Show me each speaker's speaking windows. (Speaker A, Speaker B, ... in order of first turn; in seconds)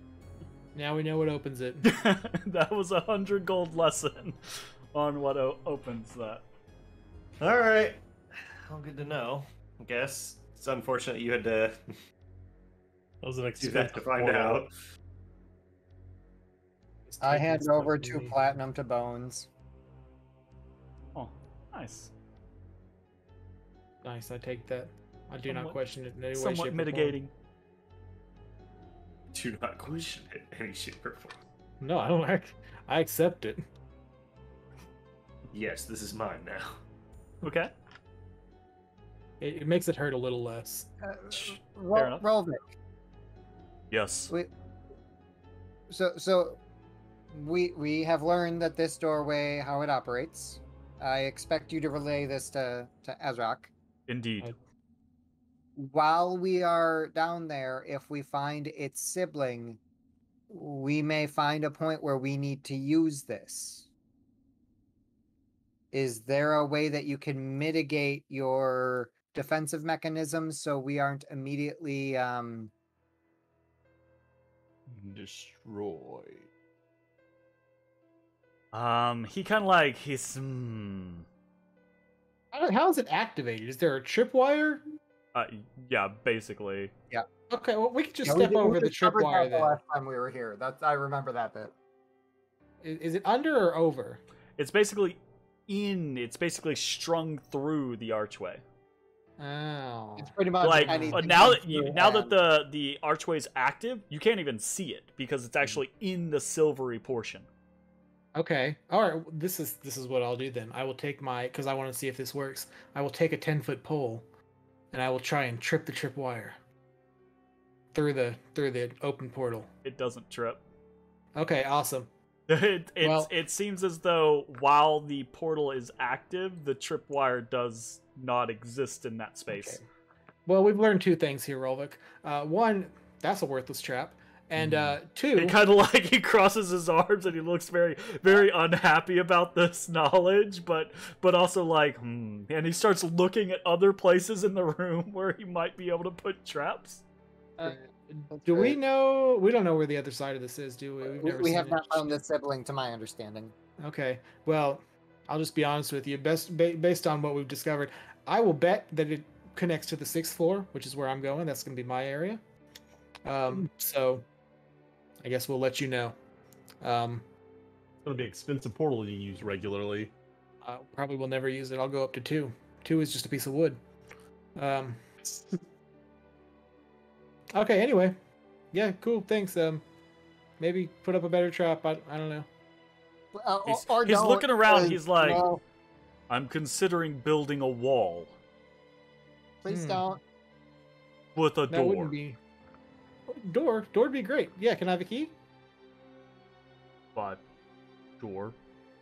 Speaker A: 0.7-1.9, 17.1-18.6, 24.0-27.2, 31.8-33.6, 39.4-40.9, 82.5-84.8, 87.5-89.8, 92.8-94.2, 99.4-101.5, 108.3-114.3, 114.9-116.6, 117.9-119.7, 121.4-122.1, 123.0-123.3, 129.5-129.8, 130.5-135.6, 147.6-152.2, 153.8-162.4, 163.2-164.3, 165.2-166.2, 166.8-167.3, 170.6-173.8, 174.6-175.0, 177.5-178.2, 178.7-179.8, 180.6-182.5, 189.7-190.1, 191.7-192.4, 193.3-195.3
Speaker B: 1.8-6.4, 21.1-22.1, 25.4-25.8, 26.3-27.3, 37.4-37.7, 41.9-42.2, 43.9-44.3, 54.1-54.5, 78.7-81.3, 85.3-86.9, 94.6-98.6, 100.6-107.5, 119.8-120.6, 122.5-129.8, 135.3-147.0, 183.7-185.4, 186.3-188.3, 191.4-192.1, 197.2-197.4, 198.2-198.6
Speaker C: 7.4-11.8, 13.6-14.7, 29.3-31.4, 35.5-36.8
Speaker D: 13.2-14.7, 74.9-76.5, 168.0-170.1
Speaker E: 17.2-19.5, 41.0-42.7, 45.9-46.6, 47.3-53.7, 55.8-59.8, 60.5-63.9, 65.9-72.7, 88.2-91.7, 100.2-102.3, 147.6-148.8, 151.0-153.5, 183.3-185.6, 189.6-190.2